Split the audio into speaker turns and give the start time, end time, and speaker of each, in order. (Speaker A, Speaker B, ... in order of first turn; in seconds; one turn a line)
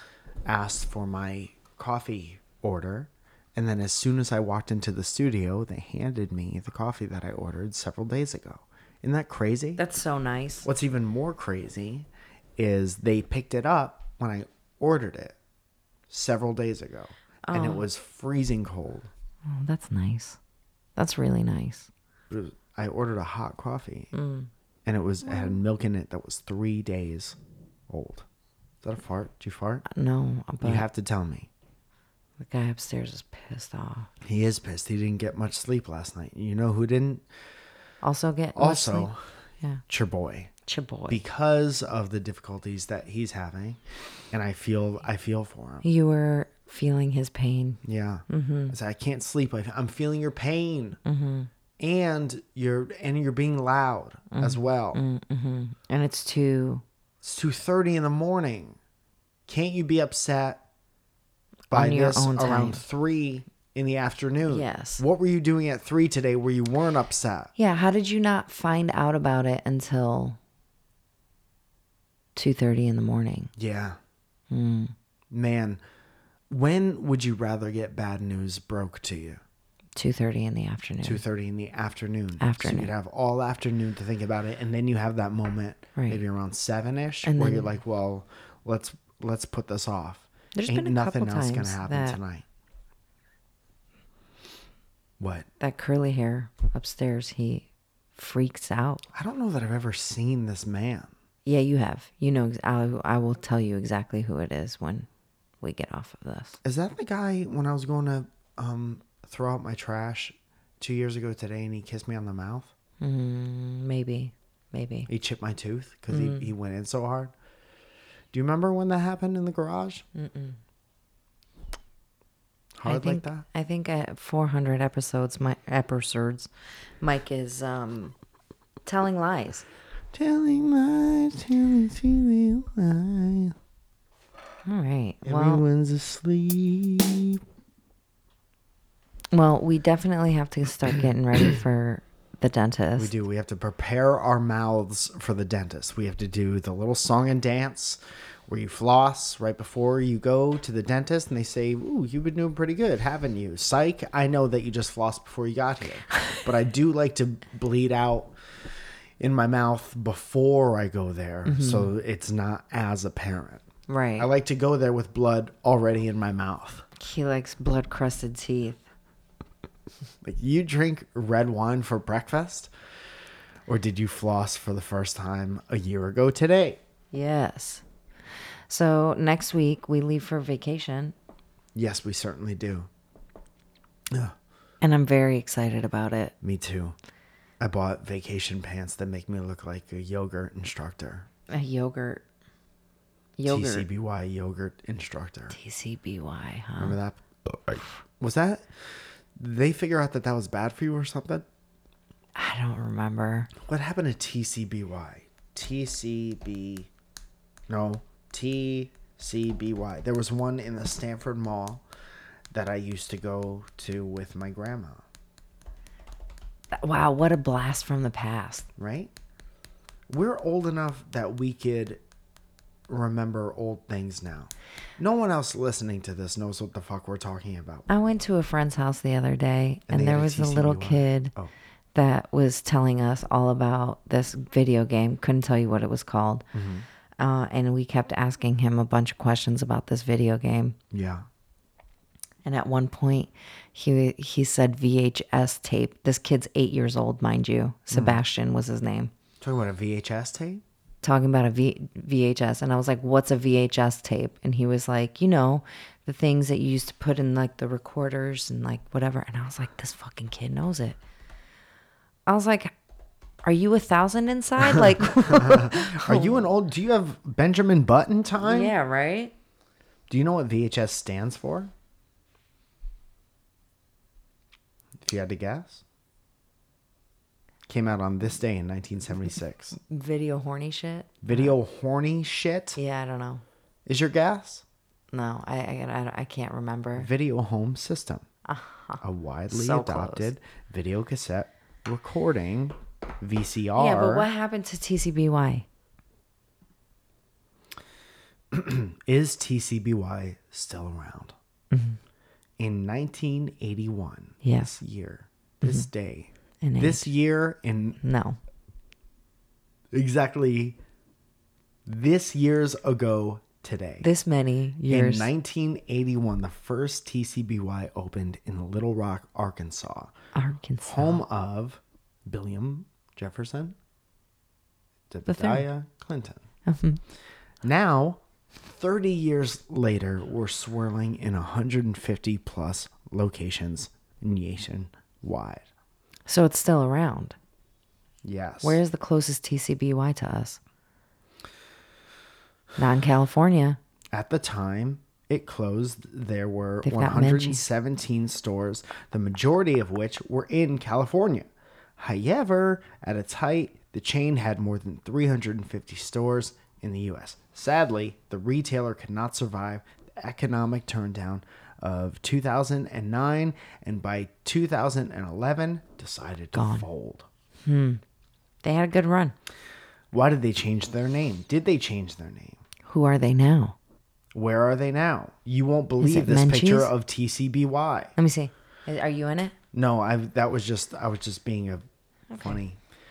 Speaker A: 0.5-9.8
Speaker B: 9.8-10.7
Speaker A: 10.6-15.4
Speaker A: 16.1-19.1
Speaker B: 17.5-17.9
Speaker B: 19.5-20.4
Speaker B: 21.0-21.9
Speaker A: 22.3-24.1
Speaker B: 24.1-24.5
Speaker A: 24.9-27.4
Speaker A: 27.9-28.3
Speaker A: 28.8-29.9
Speaker B: 29.9-30.9
Speaker A: 30.6-31.5
Speaker B: 32.4-34.1
Speaker A: 34.2-37.2
Speaker B: 38.0-39.1
Speaker A: 38.6-39.2
Speaker A: 39.9-40.5
Speaker B: 40.7-41.2
Speaker A: 41.1-43.8
Speaker A: 44.3-45.9
Speaker B: 45.8-48.8
Speaker A: 47.8-51.0
Speaker B: 51.0-51.5
Speaker A: 51.8-55.0
Speaker B: 54.3-56.8
Speaker A: 57.2-58.8
Speaker A: 59.5-60.6
Speaker B: 61.7-62.8
Speaker A: 61.7-67.5
Speaker B: 64.5-65.0
Speaker B: 67.6-70.4
Speaker B: 72.4-73.5
Speaker A: 73.6-74.0
Speaker B: 74.5-74.9
Speaker A: 75.3-75.8
Speaker A: 76.5-79.4
Speaker B: 80.0-81.2
Speaker A: 81.0-92.5
Speaker B: 82.4-82.9
Speaker B: 86.0-86.2
Speaker B: 87.2-87.7
Speaker B: 90.5-92.2
Speaker A: 95.2-95.5
Speaker B: 95.6-99.1
Speaker A: 99.1-101.1
Speaker B: 101.5-105.1
Speaker B: 105.6-106.6
Speaker A: 106.6-112.7
Speaker B: 113.0-115.1
Speaker A: 115.1-117.3
Speaker B: 116.1-116.5
Speaker A: 118.3-120.0
Speaker B: 120.1-120.6
Speaker A: 122.8-123.5
Speaker B: 122.8-128.1
Speaker B: 128.9-129.7
Speaker A: 130.1-133.6
Speaker B: 134.7-135.6
Speaker A: 135.2-137.4
Speaker B: 139.3-143.1
Speaker A: 143.0-158.3
Speaker B: 156.1-156.4
Speaker A: 159.2-163.6
Speaker B: 161.4-161.9
Speaker B: 163.9-164.3
Speaker A: 164.2-166.8
Speaker B: 167.0-168.8
Speaker A: 170.2-172.7
Speaker A: 173.7-176.8
Speaker B: 177.1-177.8
Speaker B: 178.7-181.1
Speaker A: 181.8-182.9
Speaker B: 184.8-186.3
Speaker A: 186.4-187.0
Speaker A: 187.6-191.3
Speaker B: 191.5-192.2
Speaker B: 193.4-193.9
Speaker A: 193.5-195.6
Speaker B: 195.5-197.0
Speaker A: 196.8-198.7
Speaker A: 199.4-201.4
Speaker B: 202.3-203.5
Speaker A: 203.6-206.9
Speaker A: 207.7-211.8
Speaker A: 212.5-215.1
Speaker B: 216.7-218.7
Speaker A: 218.8-219.1
Speaker A: 220.1-222.0
Speaker A: 222.9-227.9
Speaker B: 227.9-231.3
Speaker A: 229.9-231.5
Speaker B: 231.9-236.5
Speaker A: 236.5-236.9
Speaker B: 237.2-240.8
Speaker A: 240.9-241.2
Speaker B: 242.4-249.1
Speaker A: 247.9-248.2
Speaker A: 249.4-250.6
Speaker B: 251.0-261.0
Speaker B: 262.3-262.7
Speaker B: 263.4-266.4
Speaker A: 265.2-268.7
Speaker B: 268.4-269.3
Speaker A: 270.1-271.7
Speaker A: 275.0-275.8
Speaker A: 277.7-279.8
Speaker B: 279.9-281.6
Speaker A: 281.2-282.8
Speaker B: 282.8-283.4
Speaker A: 283.9-284.6
Speaker B: 285.1-287.1
Speaker A: 287.0-288.2
Speaker B: 288.5-290.3
Speaker A: 289.0-294.3
Speaker B: 293.8-295.7
Speaker A: 298.5-301.4
Speaker B: 301.7-302.0
Speaker A: 302.6-308.0
Speaker B: 304.4-304.8
Speaker B: 306.6-307.1
Speaker B: 308.0-308.4
Speaker A: 309.9-310.8
Speaker A: 311.9-314.1
Speaker B: 314.0-315.3
Speaker A: 314.9-320.1
Speaker B: 320.4-321.2
Speaker A: 320.8-323.8
Speaker A: 325.1-326.4
Speaker B: 325.3-325.7
Speaker B: 326.7-327.0
Speaker A: 327.6-335.7
Speaker B: 336.3-337.4
Speaker A: 338.2-338.8
Speaker B: 338.6-340.6
Speaker B: 342.8-343.8
Speaker A: 344.1-367.3
Speaker B: 346.8-347.6
Speaker B: 366.6-366.9
Speaker B: 367.6-368.0
Speaker B: 368.6-369.4
Speaker A: 370.1-372.6
Speaker B: 372.9-373.8
Speaker A: 374.3-378.1
Speaker B: 376.0-376.9
Speaker B: 378.2-379.5
Speaker A: 379.7-381.9
Speaker B: 382.3-382.6
Speaker A: 382.4-382.8